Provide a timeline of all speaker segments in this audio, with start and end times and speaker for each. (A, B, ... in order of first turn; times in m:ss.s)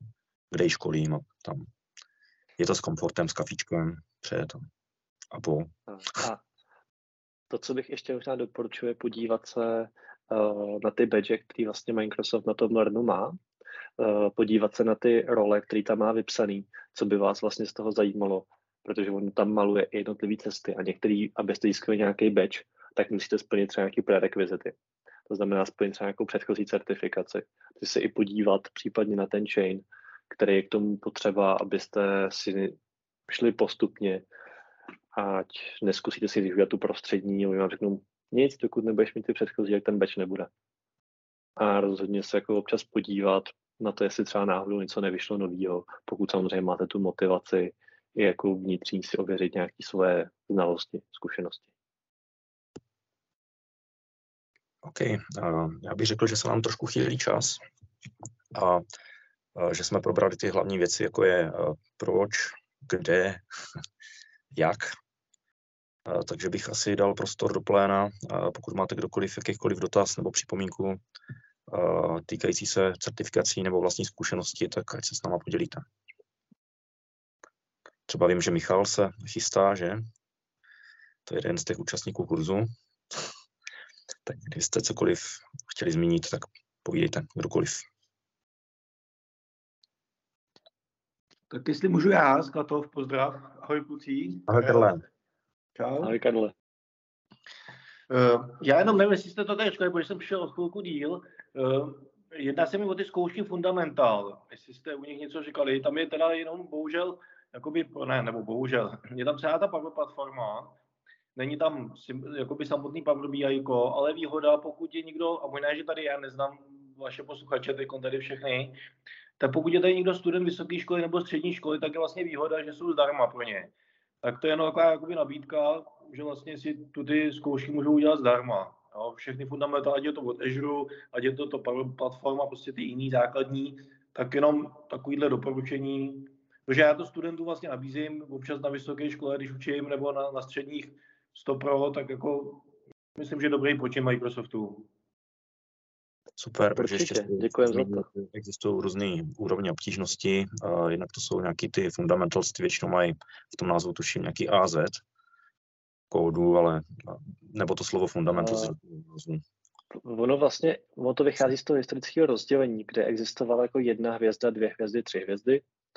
0:00.5-0:01.7 A
0:02.6-0:04.7 A
0:05.3-0:05.7 A
0:05.9-0:06.4 B
0:07.5-0:13.4 B
0:14.0-0:24.8 B
0:25.3-0:32.8 B
0:33.3-0:34.2 B
0:35.1-0:40.5 B
0:41.6-0:51.7 B
0:54.8-0:57.6 A
0:58.5-0:58.8 A
0:59.6-1:03.4 A
1:04.5-1:05.0 A
1:06.1-1:11.0 A
1:11.7-1:15.8 A
1:18.1-1:20.0 A
1:21.3-1:22.7 A
1:24.3-1:27.8 A
1:31.5-1:34.9 C
1:34.5-1:35.0 A
1:35.8-1:36.2 C
1:36.0-1:36.5 B
1:38.1-1:50.8 C
1:51.4-1:58.8 C
1:59.4-2:03.7 C
2:04.2-2:24.9 C
2:26.4-2:35.0 A
2:26.8-2:28.1 B
2:36.1-2:39.4 A
2:38.4-2:38.8 B
2:40.0-2:45.6 B